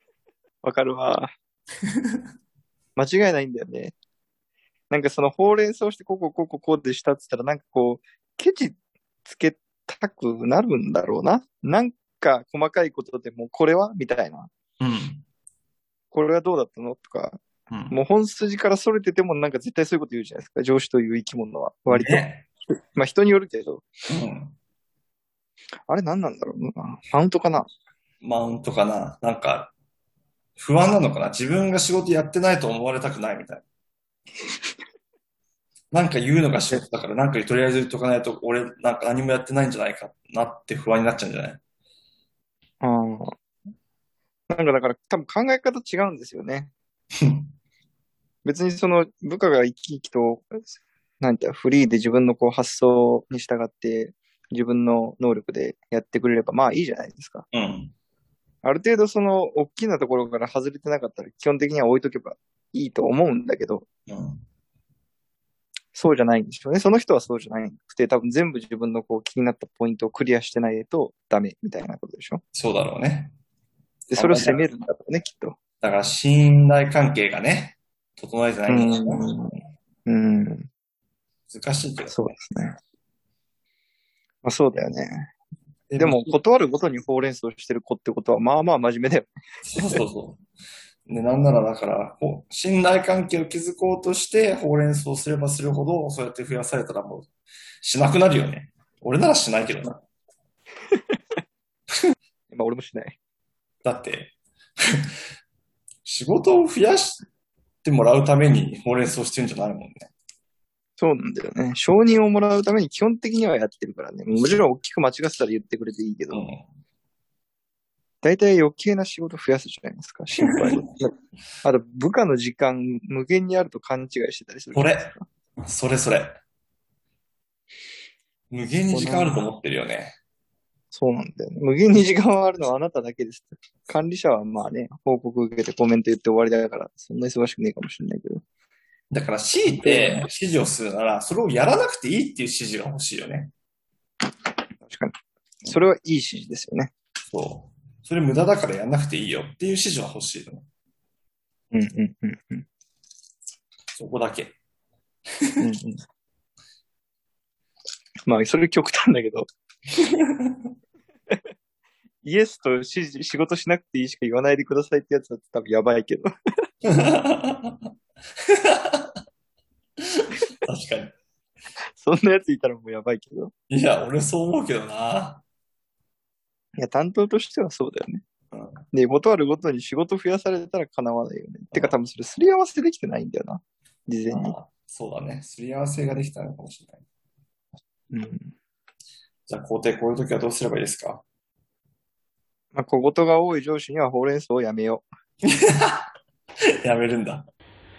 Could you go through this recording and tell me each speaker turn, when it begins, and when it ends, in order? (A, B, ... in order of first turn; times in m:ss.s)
0:00.6-0:01.3 A
0:03.0-0:04.0 A
0:04.9-0:08.8 A
0:09.2-0:14.5 A
0:14.8-0:15.2 B
0:16.1-0:22.3 A
0:17.7-0:18.0 B
0:21.9-0:22.5 B
0:23.0-0:23.8 A
0:24.1-0:24.6 B
0:25.9-0:27.7 A
0:28.2-0:29.7 B
0:30.6-0:33.6 B
0:35.9-0:41.6 B
0:42.8-0:43.3 A
0:44.5-0:46.7 A
0:47.2-0:47.5 B
0:48.4-0:50.7 A
0:51.2-0:57.5 A
0:57.5-0:57.9 B
0:58.6-1:03.9 A
1:04.1-1:04.4 B
1:06.0-1:12.4 A
1:12.6-1:13.3 B
1:14.1-1:15.6 A
1:14.2-1:14.6 B
1:15.8-1:19.2 B
1:18.7-1:19.5 A
1:20.1-1:20.7 A
1:21.5-1:22.3 B
1:22.1-1:22.8 A
1:24.4-1:25.3 A
1:25.9-1:26.3 B
1:26.0-1:29.3 A
1:29.7-1:30.4 B
1:31.1-1:37.3 B
1:37.8-1:40.0 B
1:42.5-1:43.2 A
1:43.8-1:44.3 B
1:46.0-1:47.2 B
1:47.8-1:50.1 B
1:51.0-1:56.4 A
1:56.3-1:56.6 B
1:58.2-2:01.0 A
2:01.6-2:05.2 A
2:04.7-2:05.1 B
2:05.6-2:06.3 B
2:08.5-2:10.2 B
2:08.9-2:09.4 A
2:10.9-2:18.4 A
2:19.1-2:23.5 B
2:19.8-2:20.3 A
2:24.8-2:25.2 A
2:25.7-2:26.9 A
2:27.3-2:30.6 B
2:31.7-2:32.6 A
2:33.9-2:34.6 B
2:35.6-2:36.0 A
2:38.3-2:39.4 A
2:40.1-2:40.7 B
2:42.2-2:46.3 A
2:46.8-2:47.9 B
2:48.5-2:49.1 B
2:50.1-2:51.1 B
2:52.0-2:53.5 A
2:53.7-2:55.4 B
2:56.8-2:58.2 A
2:58.5-2:58.8 B
2:58.9-3:04.6 A
3:04.3-3:07.0 B
3:08.1-3:08.5 A
3:09.5-3:11.2 B
3:12.7-3:15.1 A
3:15.4-3:16.0 B
3:16.8-3:17.5 B